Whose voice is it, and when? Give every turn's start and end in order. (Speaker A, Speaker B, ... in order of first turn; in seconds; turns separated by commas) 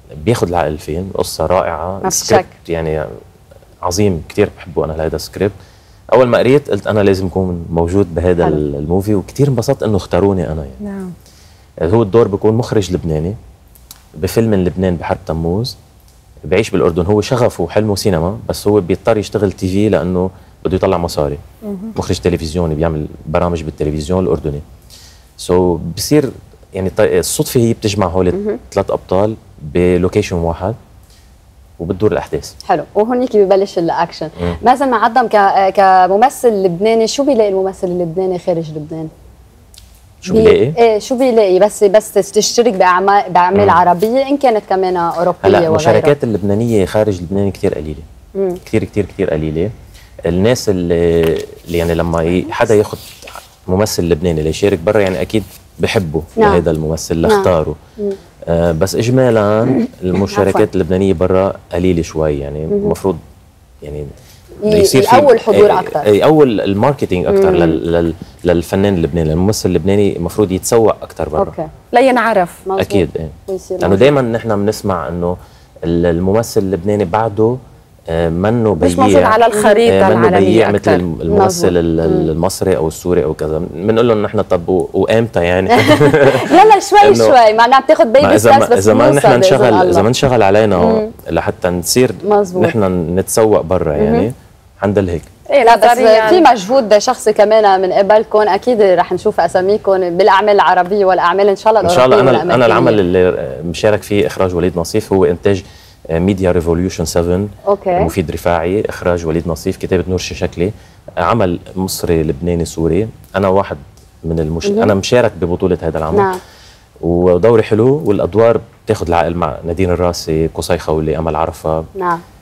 Speaker A: 0.2-3.1, Speaker B: 2.0-2.5, Speaker A: 3.8-5.5, Speaker A: 6.1-10.8, Speaker C: 10.8-11.1, Speaker A: 11.8-13.4, Speaker A: 14.2-15.7, Speaker A: 16.5-21.4, Speaker A: 21.9-24.6, Speaker A: 25.4-30.8, Speaker A: 31.8-32.5, Speaker B: 32.7-39.1, Speaker A: 40.2-40.8, Speaker B: 40.3-46.1, Speaker A: 43.5-43.8, Speaker A: 45.4-48.0, Speaker A: 48.6-49.7, Speaker A: 50.3-53.0, Speaker A: 53.7-57.8, Speaker B: 56.4-56.6, Speaker B: 57.2-58.2, Speaker A: 58.5-63.2, Speaker B: 60.3-60.7, Speaker B: 62.7-63.0, Speaker A: 63.8-64.1, Speaker B: 64.6-66.1, Speaker A: 64.7-71.5, Speaker B: 67.3-67.8, Speaker B: 71.4-71.7, Speaker C: 71.9-72.6, Speaker B: 72.7-74.1, Speaker A: 72.8-77.6, Speaker A: 78.1-87.4, Speaker C: 78.8-81.0, Speaker B: 81.3-82.3, Speaker B: 85.7-90.0, Speaker A: 88.2-95.3, Speaker B: 90.8-91.1, Speaker B: 92.2-92.7, Speaker B: 94.0-94.3, Speaker C: 95.5-96.5, Speaker B: 95.6-103.0, Speaker A: 101.8-116.3, Speaker B: 107.7-108.1, Speaker B: 114.6-114.9, Speaker B: 116.1-116.4, Speaker A: 117.0-121.9